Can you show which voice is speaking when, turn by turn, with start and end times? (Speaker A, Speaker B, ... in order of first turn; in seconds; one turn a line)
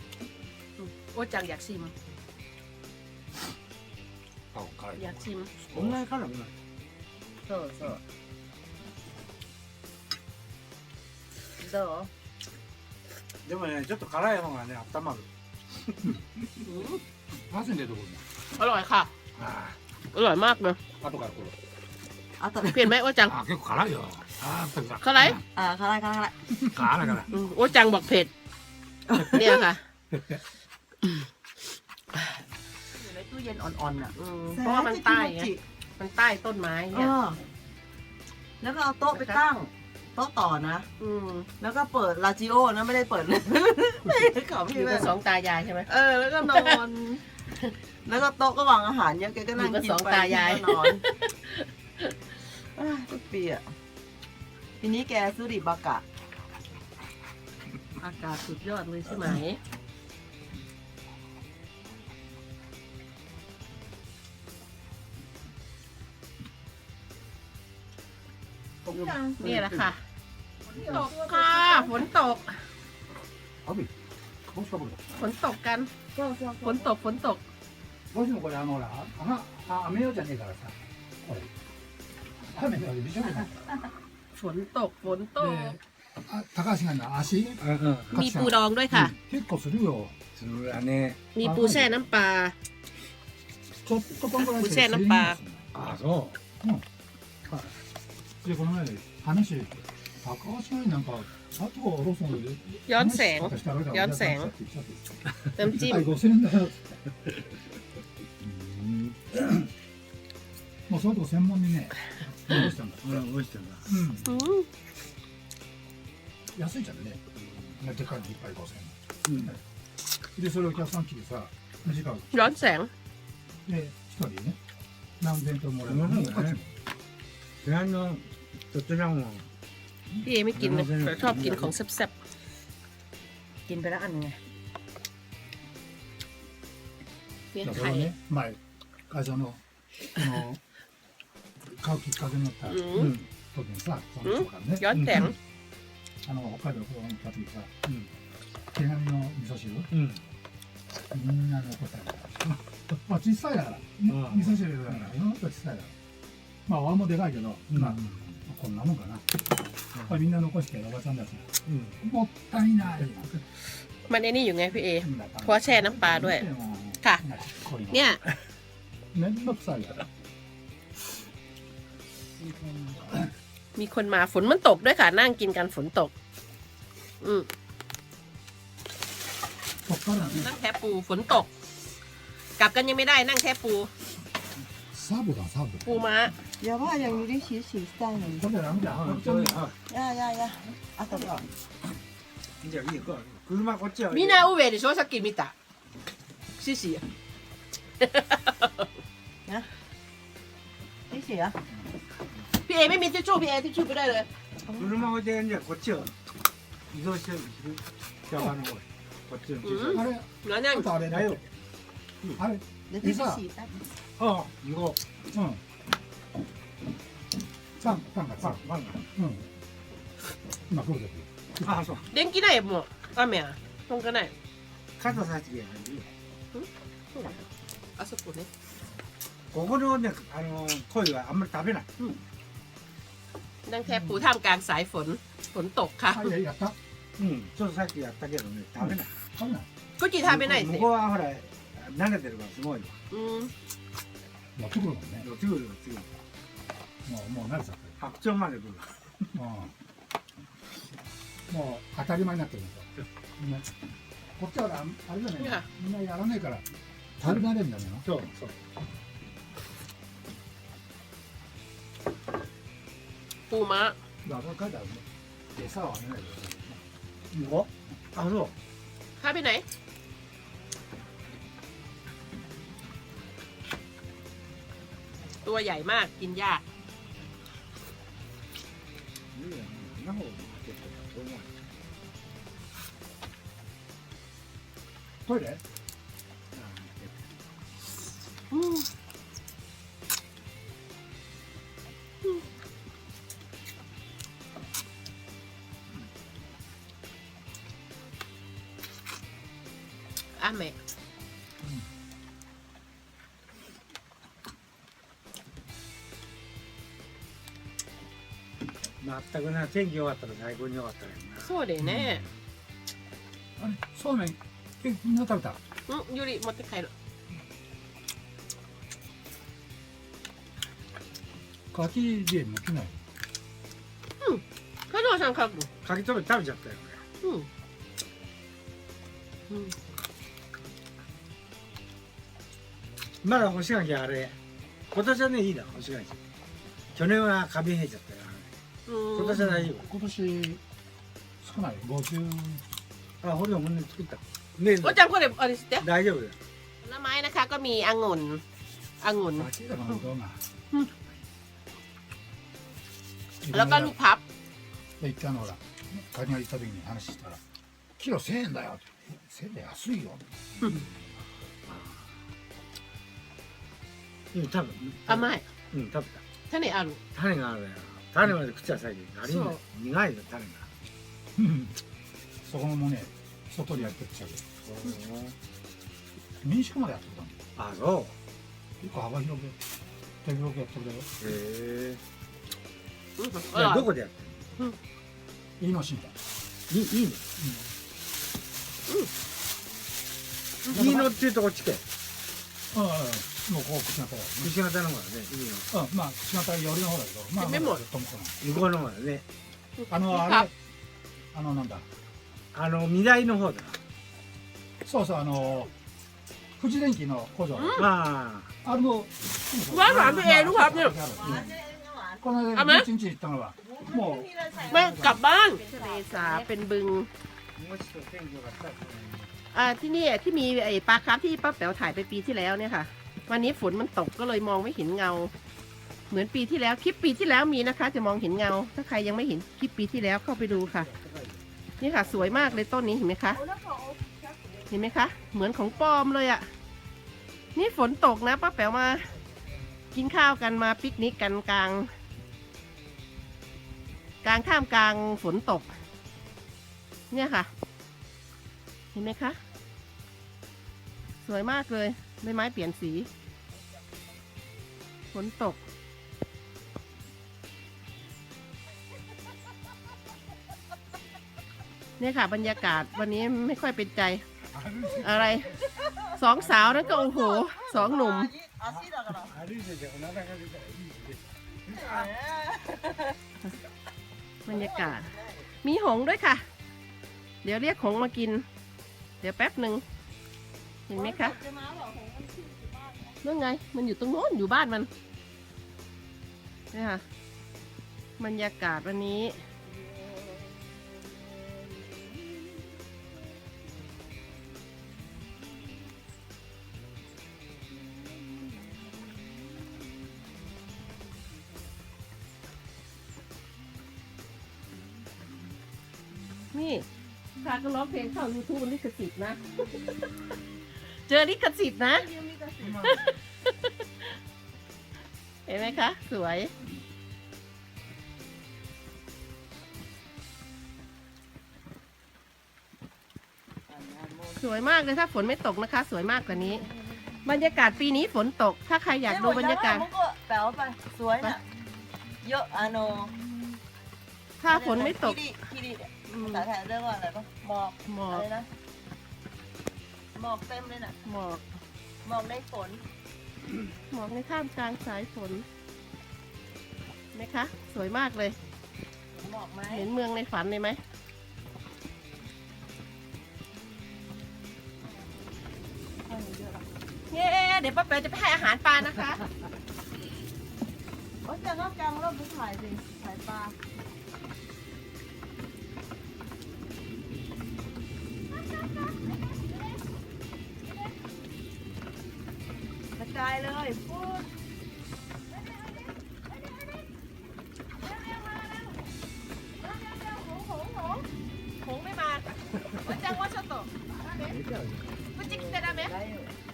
Speaker A: 0.8-1.9
Speaker B: 4.5-6.0
Speaker A: 5.0-5.5
Speaker C: 5.7-6.6
Speaker D: 7.5-8.0
Speaker D: 11.6-12.1
Speaker C: 13.4-16.1
Speaker A: 16.6-17.0
Speaker B: 17.5-18.2
Speaker A: 18.6-19.1
Speaker B: 19.4-19.8
Speaker A: 20.1-20.8
Speaker B: 21.0-21.6
Speaker D: 22.4-22.9
Speaker A: 22.6-23.4
Speaker C: 23.3-25.0
Speaker B: 23.7-25.4
Speaker A: 25.0-25.4
Speaker D: 25.5-26.5
Speaker C: 26.6-27.3
Speaker A: 27.3-28.3
Speaker D: 29.1-29.6
Speaker A: 29.3-29.8
Speaker C: 30.1-30.4
Speaker D: 32.9-35.6
Speaker A: 34.2-37.1
Speaker D: 36.9-37.4
Speaker D: 38.6-40.9
Speaker A: 39.1-39.4
Speaker A: 41.0-41.5
Speaker D: 41.6-45.1
Speaker A: 44.7-45.9
Speaker D: 45.9-47.2
Speaker A: 46.4-46.8
Speaker D: 48.0-51.0
Speaker A: 49.6-52.1
Speaker D: 52.8-53.7
Speaker D: 54.8-56.0
Speaker A: 58.0-59.6
Speaker B: 68.8-69.9
Speaker D: 68.9-69.4
Speaker A: 69.4-70.0
Speaker D: 70.7-72.0
Speaker A: 70.8-72.6
Speaker B: 73.6-74.0
Speaker B: 74.5-75.0
Speaker A: 75.1-75.9
Speaker D: 76.1-76.9
Speaker A: 76.6-77.4
Speaker B: 78.1-81.5
Speaker B: 82.5-83.8
Speaker A: 84.4-85.8
Speaker B: 85.4-90.2
Speaker C: 87.6-88.2
Speaker A: 88.1-89.1
Speaker C: 90.3-91.3
Speaker A: 91.3-92.5
Speaker B: 91.4-91.9
Speaker B: 93.8-95.7
Speaker A: 94.4-95.4
Speaker C: 95.7-96.4
Speaker B: 98.4-106.9
Speaker A: 102.9-104.5
Speaker A: 105.6-106.1
Speaker B: 108.4-109.7
Speaker B: 110.9-113.2
Speaker C: 113.0-113.9
Speaker B: 113.9-114.5
Speaker A: 114.3-114.7
Speaker B: 116.5-119.6
Speaker C: 119.3-119.5
Speaker B: 120.4-122.3
Speaker A: 122.3-122.9
Speaker B: 123.7-124.6
Speaker B: 125.2-126.8
Speaker C: 125.8-126.6
Speaker C: 127.6-129.5
Speaker A: 130.2-132.1
Speaker C: 130.6-131.8
Speaker D: 133.7-134.4
Speaker A: 137.5-138.1
Speaker B: 137.6-139.6
Speaker B: 140.1-140.6
Speaker B: 141.7-145.3
Speaker A: 142.7-143.1
Speaker C: 142.9-143.3
Speaker A: 144.2-145.3
Speaker C: 144.9-145.3
Speaker B: 146.2-147.7
Speaker B: 148.7-149.9
Speaker C: 149.9-150.2
Speaker B: 151.1-155.9
Speaker C: 154.1-155.1
Speaker B: 156.7-159.3
Speaker C: 157.7-158.0
Speaker C: 159.9-160.2
Speaker B: 160.1-163.4
Speaker C: 161.7-162.0
Speaker A: 164.1-166.5
Speaker B: 165.0-168.0
Speaker A: 167.9-168.2
Speaker B: 169.1-170.1
Speaker B: 172.6-173.2
Speaker A: 173.8-176.1
Speaker A: 177.2-177.5
Speaker B: 179.8-180.5
Speaker A: 180.1-181.5
Speaker A: 182.6-183.9
Speaker B: 184.9-185.9
Speaker A: 185.8-186.3
Speaker D: 186.6-188.5
Speaker B: 188.4-189.6
Speaker C: 188.9-189.8
Speaker D: 189.9-191.4
Speaker C: 192.6-194.5
Speaker A: 194.1-195.5
Speaker A: 196.6-197.0
Speaker A: 198.0-198.9
Speaker D: 201.1-201.6
Speaker A: 202.7-204.3
Speaker D: 204.7-204.9
Speaker C: 204.8-206.2
Speaker C: 206.9-210.1
Speaker A: 209.6-210.9
Speaker B: 209.8-211.4
Speaker C: 211.0-211.4
Speaker B: 212.4-213.4
Speaker D: 212.9-213.7
Speaker C: 214.2-215.0
Speaker B: 215.3-215.6
Speaker B: 217.8-219.5
Speaker C: 217.9-219.1
Speaker B: 220.7-221.9
Speaker C: 221.6-222.1
Speaker A: 222.1-224.3
Speaker C: 225.0-226.1
Speaker A: 226.5-227.4
Speaker A: 228.0-228.5
Speaker C: 229.5-231.9
Speaker A: 233.7-236.3
Speaker B: 233.9-234.2
Speaker B: 236.1-236.8
Speaker C: 237.2-239.1
Speaker B: 238.8-239.7
Speaker A: 240.0-240.9
Speaker C: 240.2-243.0
Speaker A: 243.1-243.5
Speaker B: 244.6-245.3
Speaker C: 245.2-246.1
Speaker B: 247.1-248.0
Speaker C: 248.0-249.3
Speaker B: 249.3-249.7
Speaker B: 251.5-253.7
Speaker B: 254.4-256.6
Speaker A: 255.4-255.7
Speaker B: 257.2-258.1
Speaker C: 258.0-258.6
Speaker A: 263.5-264.0
Speaker B: 264.2-266.9
Speaker C: 267.3-268.6
Speaker A: 269.2-269.6
Speaker A: 275.4-276.6
Speaker C: 279.3-281.6
Speaker B: 285.3-285.6
Speaker C: 286.5-287.2
Speaker A: 288.5-288.9
Speaker A: 300.4-300.8
Speaker C: 309.0-311.5
Speaker A: 311.4-312.2
Speaker B: 313.6-315.6
Speaker A: 315.9-316.9
Speaker B: 321.7-322.9
Speaker A: 324.2-325.7
Speaker C: 325.8-327.0
Speaker A: 327.2-327.5
Speaker A: 329.5-329.8
Speaker C: 333.2-334.4
Speaker C: 334.9-336.2
Speaker C: 336.9-338.6
Speaker A: 338.9-339.4
Speaker C: 339.2-339.9
Speaker B: 339.3-340.6
Speaker B: 341.4-342.6
Speaker C: 343.2-345.1
Speaker A: 344.8-345.9
Speaker C: 345.8-346.4
Speaker A: 346.8-348.4
Speaker A: 349.0-349.5
Speaker B: 349.3-350.4
Speaker B: 353.4-353.9
Speaker A: 353.5-354.2
Speaker B: 355.0-357.4
Speaker B: 358.0-360.3
Speaker C: 361.7-362.1
Speaker C: 364.3-366.2
Speaker A: 365.1-365.4
Speaker A: 366.5-367.0
Speaker C: 367.1-370.7
Speaker A: 369.2-369.6
Speaker B: 371.4-371.8
Speaker B: 372.4-374.5
Speaker C: 374.6-375.4
Speaker B: 376.4-377.4
Speaker C: 377.6-378.2
Speaker B: 378.8-379.6
Speaker B: 380.2-381.1
Speaker C: 381.2-382.0
Speaker A: 383.2-383.9
Speaker C: 383.5-384.4
Speaker B: 385.6-386.2
Speaker C: 386.7-387.3
Speaker B: 387.4-387.7
Speaker C: 390.7-391.8
Speaker B: 390.7-391.1
Speaker B: 392.7-394.5
Speaker C: 394.4-395.7
Speaker B: 395.7-398.4
Speaker A: 397.4-397.8
Speaker C: 398.4-399.3
Speaker A: 399.8-400.5
Speaker B: 399.9-400.5
Speaker B: 401.3-401.9
Speaker C: 402.5-403.8
Speaker B: 404.8-405.7
Speaker B: 406.6-407.9
Speaker A: 407.5-407.9
Speaker C: 407.8-408.5
Speaker B: 408.6-411.4
Speaker A: 409.7-411.0
Speaker C: 410.0-410.4
Speaker D: 411.1-412.2
Speaker C: 411.2-411.5
Speaker B: 412.2-415.2
Speaker A: 412.6-412.9
Speaker D: 413.6-416.5
Speaker A: 414.7-417.1
Speaker C: 417.6-419.3
Speaker A: 419.5-425.3
Speaker A: 426.1-430.9
Speaker C: 430.6-431.4
Speaker A: 431.8-433.4
Speaker C: 432.0-432.7
Speaker D: 433.3-434.9
Speaker A: 434.7-436.5
Speaker A: 437.6-439.1
Speaker A: 439.9-441.9
Speaker A: 444.2-445.7
Speaker A: 447.1-447.5
Speaker A: 448.9-449.4
Speaker A: 451.2-453.1
Speaker A: 455.1-455.6
Speaker A: 462.0-464.2
Speaker C: 464.5-465.5
Speaker A: 465.0-465.5
Speaker D: 465.7-466.1
Speaker A: 466.2-468.3
Speaker D: 466.8-469.3
Speaker C: 468.7-472.1
Speaker D: 471.7-473.2
Speaker A: 474.5-475.1
Speaker D: 474.5-475.5
Speaker A: 475.6-476.4
Speaker A: 477.4-478.4
Speaker A: 479.2-479.8
Speaker A: 480.9-481.4
Speaker D: 480.9-483.2
Speaker A: 483.2-484.9
Speaker A: 486.7-487.0
Speaker A: 488.2-489.4
Speaker D: 489.7-492.2
Speaker A: 506.5-506.9
Speaker A: 507.4-509.9
Speaker D: 509.8-510.1
Speaker A: 511.1-512.1
Speaker D: 511.9-513.0
Speaker C: 512.6-513.0
Speaker A: 512.8-514.1
Speaker A: 515.5-516.5
Speaker D: 523.7-524.4
Speaker A: 524.4-526.7
Speaker A: 527.2-529.9
Speaker D: 529.1-531.5
Speaker D: 532.2-533.2
Speaker A: 534.4-535.2
Speaker D: 534.5-538.5
Speaker A: 536.1-536.5
Speaker A: 537.9-538.3
Speaker D: 540.1-541.0
Speaker A: 541.0-541.4
Speaker D: 542.0-542.8
Speaker A: 543.9-545.5
Speaker A: 547.1-548.4
Speaker D: 549.1-549.9
Speaker A: 549.7-550.8
Speaker D: 556.0-556.7
Speaker A: 557.1-559.2
Speaker D: 561.2-563.5
Speaker D: 568.3-569.7
Speaker D: 573.0-574.3
Speaker D: 575.3-576.9
Speaker D: 577.8-578.9
Speaker D: 579.6-581.1
Speaker A: 581.6-582.3
Speaker A: 582.8-583.7
Speaker D: 584.0-584.4
Speaker C: 584.2-585.0
Speaker A: 585.1-585.9
Speaker D: 585.1-586.3